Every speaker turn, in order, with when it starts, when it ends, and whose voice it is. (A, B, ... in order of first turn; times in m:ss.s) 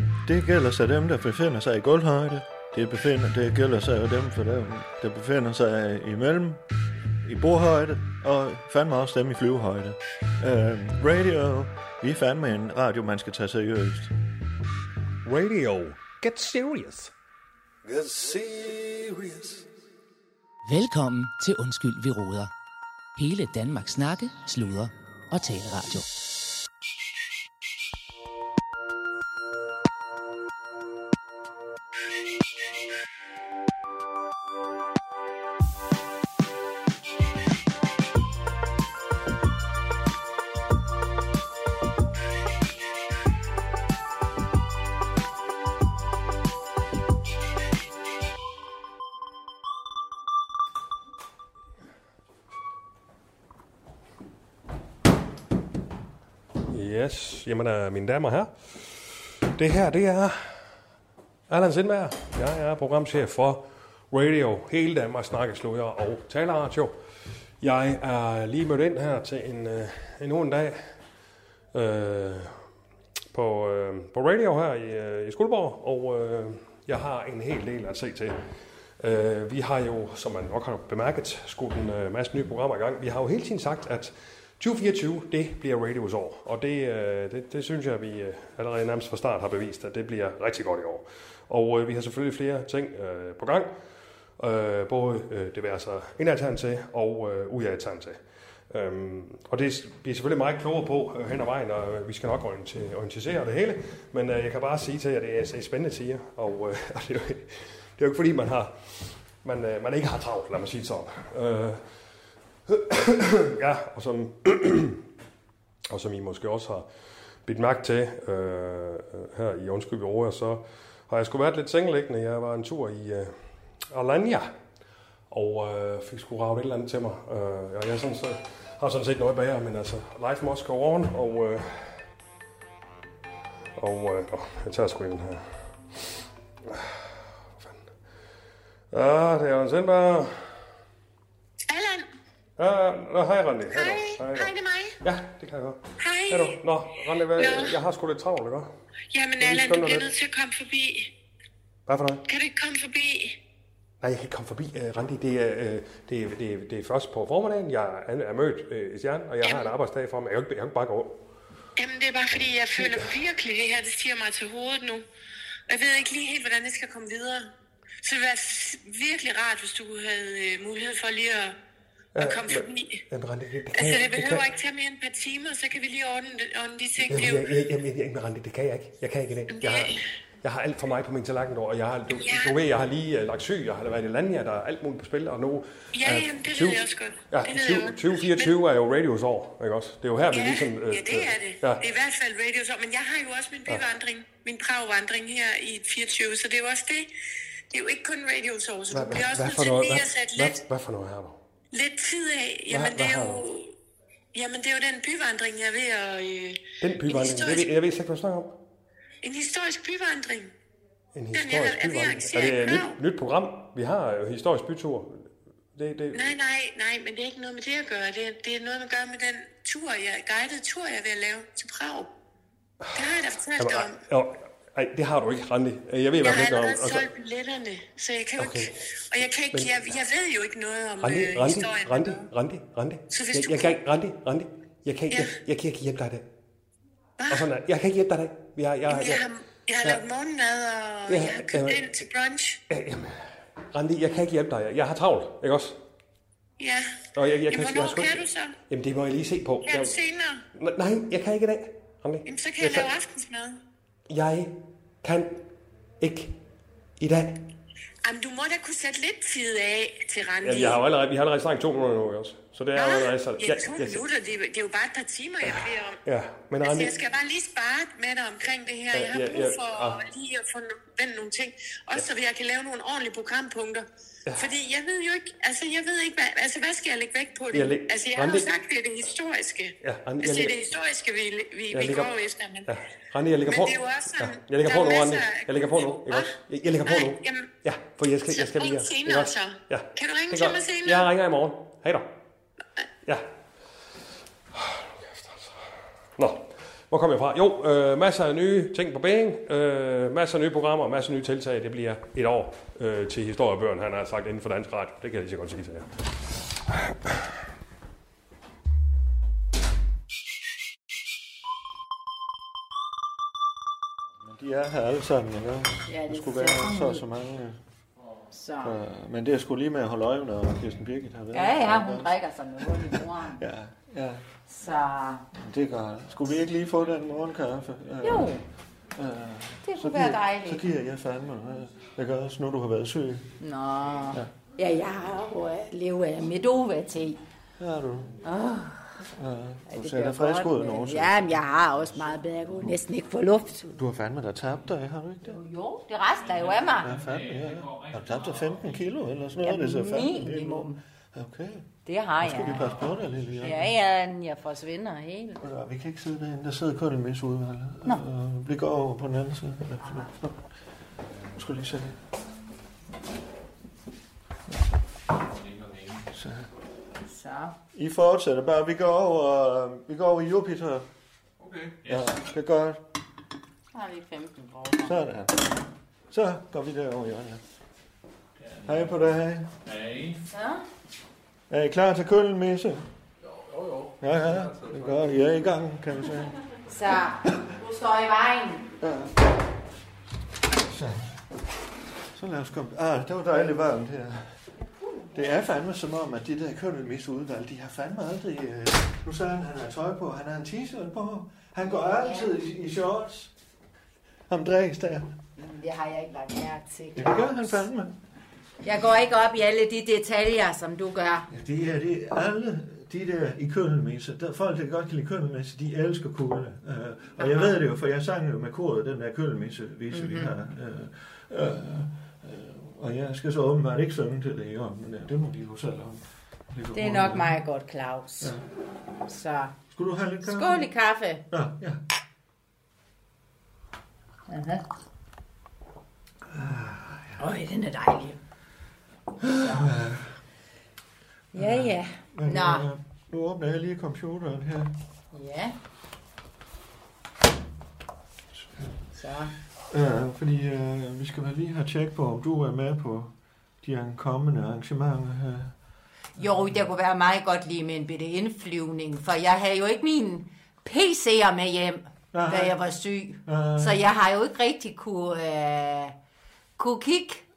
0:00.2-0:06.6 A
0:07.2-0:14.1 A
0:15.2-0:17.1 B
0:17.9-0:19.6 B
0:18.0-0:18.6 A
0:20.6-0:22.5 C
0:23.2-0:26.1 C
0:56.7-1:00.5 B
1:01.5-1:07.0 B
1:07.6-1:10.9 B
1:11.7-1:12.6 B
1:13.3-1:18.4 B
1:19.0-1:33.7 B
1:34.4-1:38.2 B
1:38.7-1:51.8 B
1:52.7-1:55.0 B
1:55.9-1:56.9 B
1:57.4-2:03.4 B
2:03.9-2:04.5 B
2:05.3-2:12.0 B
2:13.8-2:15.4 B
2:16.7-2:17.0 B
2:17.6-2:17.8 B
2:18.9-2:20.4 B
2:21.7-2:22.1 D
2:22.6-2:24.5 B
2:23.7-2:25.0 D
2:25.0-2:28.7 B
2:26.0-2:26.6 D
2:27.4-2:27.8 D
2:29.1-2:31.1 D
2:29.4-2:30.1 B
2:31.9-2:32.2 B
2:32.3-2:33.4 D
2:34.0-2:41.2 B
2:39.4-2:39.7 D
2:41.8-2:45.0 D
2:42.8-2:43.1 B
2:45.7-2:47.5 D
2:48.0-2:51.6 D
2:52.2-2:53.0 D
2:52.2-2:54.4 B
2:53.8-2:57.5 D
2:57.1-3:11.8 B
2:59.5-3:00.1 D
3:02.1-3:02.6 D
3:05.9-3:08.5 D
3:10.3-3:17.1 D
3:17.7-3:20.6 D
3:18.9-3:21.4 B
3:21.7-3:23.7 D
3:22.7-3:23.4 B
3:24.3-3:27.7 D
3:26.8-3:28.6 B
3:29.2-3:30.5 D
3:31.2-3:35.2 B
3:31.3-3:33.0 D
3:35.8-3:36.3 B
3:36.1-3:42.1 D
3:42.9-3:44.0 D
3:43.6-3:47.1 B
3:46.2-3:52.2 D
3:48.4-3:48.7 B
3:51.0-3:56.3 B
3:53.1-3:53.8 D
3:57.2-3:57.5 D
3:57.3-3:59.2 B
3:58.9-4:02.6 D
4:01.1-4:01.9 B
4:02.7-4:03.2 B
4:03.7-4:05.8 B
4:06.6-4:08.6 D
4:07.2-4:09.9 B
4:09.7-4:10.4 D
4:10.6-4:12.9 B
4:12.3-4:13.6 D
4:14.1-4:15.4 B
4:16.0-4:16.3 B
4:17.0-4:17.4 B
4:18.0-4:20.8 D
4:20.4-4:24.0 B
4:22.8-4:26.0 D
4:25.4-4:27.0 B
4:26.6-4:33.8 D
4:28.9-4:30.0 B
4:34.4-4:42.7 D
4:37.5-4:38.5 B
4:39.8-4:40.6 B
4:41.7-4:52.1 B
4:43.4-4:46.3 D
4:46.8-4:47.5 D
4:48.3-4:51.1 D
4:54.5-4:55.6 B
4:56.2-5:05.9 B
5:14.2-5:17.6 A
5:15.9-5:17.0 E
5:18.3-5:18.8 E
5:18.6-5:24.2 A
5:21.3-5:23.4 E
5:24.5-5:25.3 E
5:25.3-5:28.4 A
5:28.0-5:28.4 E
5:29.0-5:33.4 A
5:29.6-5:30.7 E
5:33.4-5:37.2 E
5:37.6-5:38.2 A
5:38.2-5:39.0 E
5:39.2-5:41.4 A
5:39.7-5:43.7 E
5:43.7-5:45.4 A
5:45.2-5:46.9 E
5:46.2-5:49.0 F
5:46.8-5:51.6 A
5:49.4-5:50.8 E
5:51.9-5:52.8 E
5:52.2-5:53.7 A
5:53.4-5:55.4 E
5:55.4-6:00.4 A
6:01.3-6:02.0 A
6:05.3-6:06.1 F
6:06.1-6:06.5 A
6:07.0-6:07.6 E
6:07.8-6:10.9 A
6:11.4-6:12.2 F
6:11.9-6:12.8 A
6:13.7-6:15.0 E
6:14.8-6:15.5 A
6:16.1-6:17.4 A
6:18.4-6:19.0 F
6:18.7-6:19.5 A
6:19.6-6:20.2 F
6:20.2-6:20.6 E
6:21.5-6:22.8 A
6:23.3-6:24.9 F
6:24.0-6:26.3 A
6:26.7-6:28.7 E
6:28.8-6:29.2 A
6:30.6-6:31.2 A
6:32.1-6:34.4 A
6:34.6-6:35.3 E
6:35.1-6:43.3 A
6:41.6-6:42.3 E
6:44.3-6:45.1 A
6:45.4-6:47.6 E
6:47.0-6:47.9 A
6:48.6-6:51.3 E
6:51.3-7:07.4 A
6:57.2-6:57.6 E
6:59.9-7:00.3 E
7:06.7-7:08.3 E
7:09.1-7:09.5 E
7:09.7-7:10.7 A
7:10.2-7:11.3 E
7:11.3-7:11.8 A
7:14.3-7:14.6 E
7:16.3-7:17.2 A
7:17.2-7:18.2 E
7:19.2-7:20.2 A
7:19.4-7:19.7 E
7:21.3-7:22.7 E
7:21.4-7:24.8 A
7:25.1-7:25.6 E
7:29.0-7:29.3 E
7:29.7-7:35.5 A
7:36.2-7:46.0 E
7:36.2-7:36.6 A
7:42.1-7:42.6 A
7:43.3-7:43.8 A
7:46.6-7:47.2 E